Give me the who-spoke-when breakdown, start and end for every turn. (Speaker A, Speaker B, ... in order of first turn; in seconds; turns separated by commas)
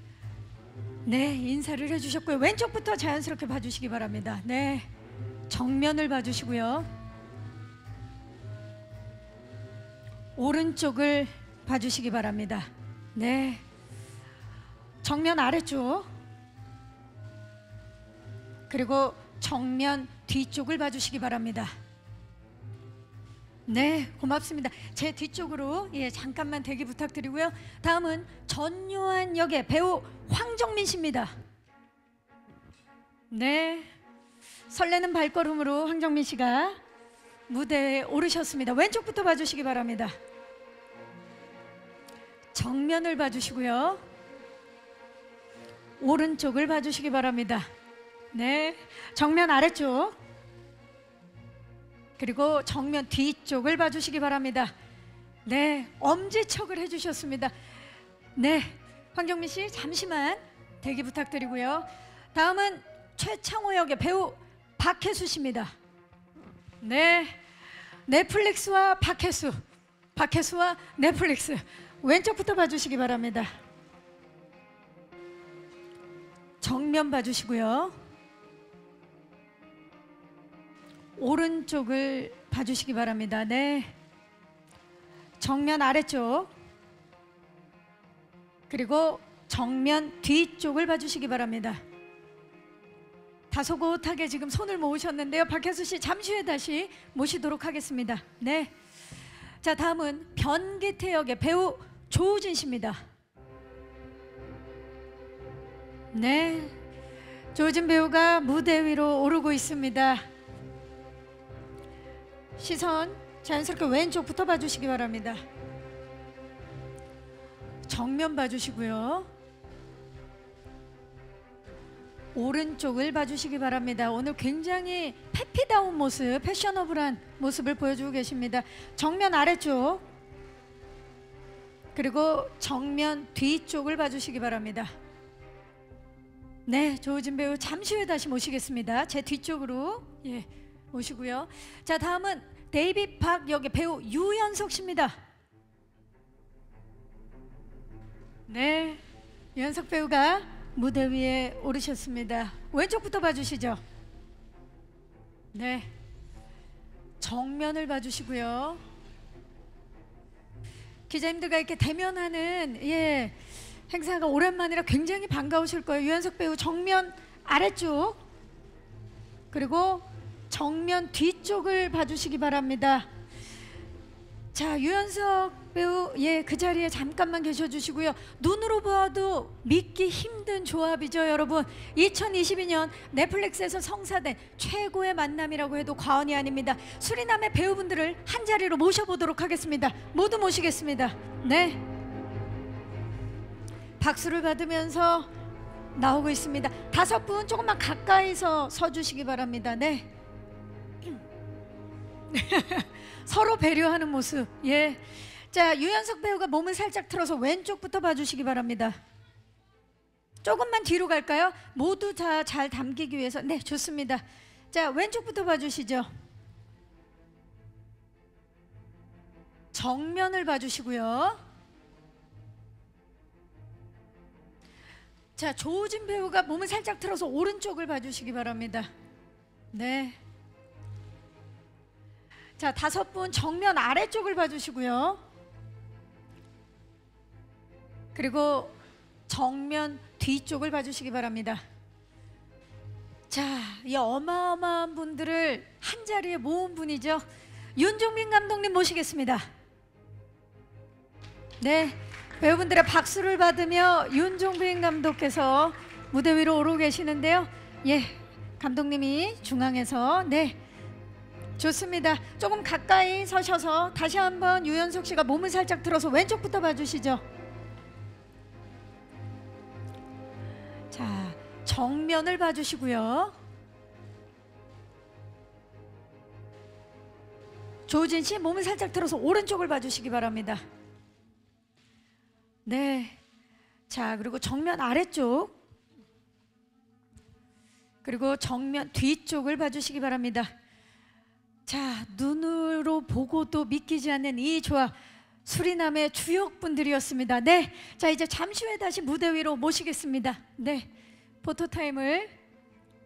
Speaker A: 1.1-4.9, Speaker A: 5.5-6.9, Speaker A: 10.4-13.6, Speaker A: 15.0-16.1, Speaker A: 18.7-21.8, Speaker A: 23.7-31.3, Speaker A: 33.3-33.9, Speaker A: 34.7-36.8, Speaker A: 37.5-40.1, Speaker A: 42.5-44.0, Speaker A: 46.0-47.7, Speaker A: 48.3-50.2, Speaker A: 52.2-54.7, Speaker A: 55.5-57.5, Speaker A: 58.4-65.7, Speaker A: 66.8-67.4, Speaker A: 68.1-69.6, Speaker A: 70.2-73.5, Speaker A: 76.6-78.0, Speaker A: 81.2-83.9, Speaker A: 85.4-86.5, Speaker A: 88.7-91.8, Speaker A: 93.5-98.7, Speaker A: 99.6-103.0, Speaker A: 106.1-106.8, Speaker A: 107.5-110.2, Speaker A: 112.6-115.4, Speaker A: 117.8-119.3, Speaker A: 122.3-130.0, Speaker A: 131.9-134.9, Speaker A: 136.7-145.2, Speaker A: 148.5-149.0, Speaker A: 149.6-153.8, Speaker A: 155.5-155.9, Speaker A: 157.2-158.8, Speaker A: 161.1-163.4, Speaker A: 163.9-168.2, Speaker A: 169.5-173.1, Speaker A: 174.5-191.8, Speaker A: 194.0-195.3, Speaker A: 195.9-200.1, Speaker A: 202.3-209.0, Speaker A: 210.4-216.1, Speaker A: 219.7-221.4, Speaker A: 225.4-228.9, Speaker A: 229.7-230.2, Speaker A: 232.6-235.2, Speaker A: 238.2-238.8, Speaker A: 239.3-241.6, Speaker A: 243.3-247.2, Speaker A: 247.8-249.5, Speaker A: 251.6-260.6, Speaker A: 261.6-267.2, Speaker A: 270.9-273.4, Speaker A: 277.9-280.6, Speaker A: 282.7-283.2, Speaker A: 283.9-285.6, Speaker A: 288.0-290.5, Speaker A: 291.7-294.9, Speaker A: 295.4-300.9, Speaker A: 301.4-302.3